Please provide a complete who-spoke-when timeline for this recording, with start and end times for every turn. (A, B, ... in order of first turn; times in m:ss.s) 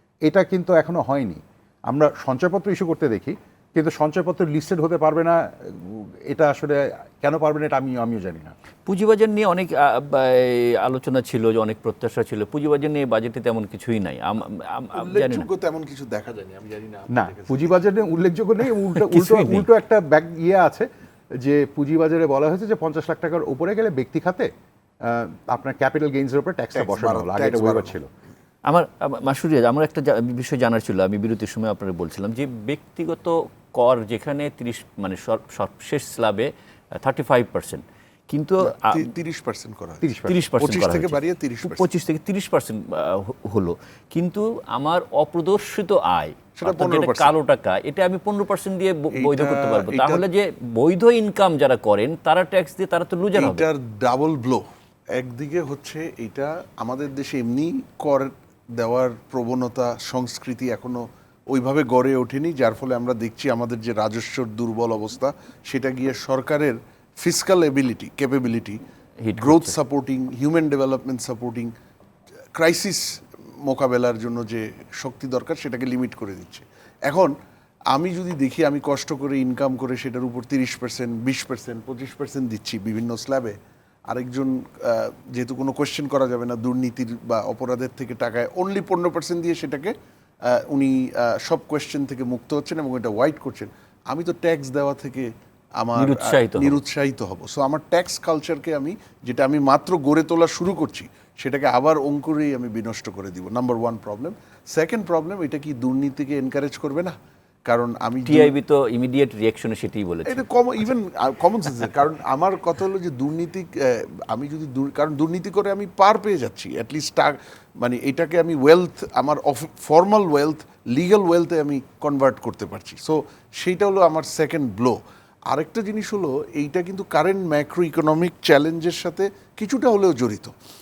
0:00.3-0:08.6 A
0:08.9-0:15.5 B
0:15.0-0:17.8 C
0:17.1-0:20.9 A
0:19.0-0:19.7 B
0:21.4-0:24.5 A
0:25.0-0:28.1 A
0:26.7-0:28.0 C
0:28.7-0:36.5 B
0:37.0-0:39.1 B
0:38.6-0:41.9 C
0:40.0-0:40.4 A
0:40.3-0:53.6 B
0:46.6-0:47.3 C
0:49.1-0:50.2 C
0:53.4-0:54.6 C
0:55.2-1:08.8 C
1:09.2-1:09.8 B
1:09.4-1:11.7 C
1:12.6-1:17.3 C
1:17.9-1:23.6 C
1:24.1-1:29.9 C
1:30.5-1:47.1 C
1:36.0-1:36.8 B
1:47.7-1:48.5 C
1:48.3-1:50.5 B
1:50.2-2:05.0 C
2:05.5-2:10.5 C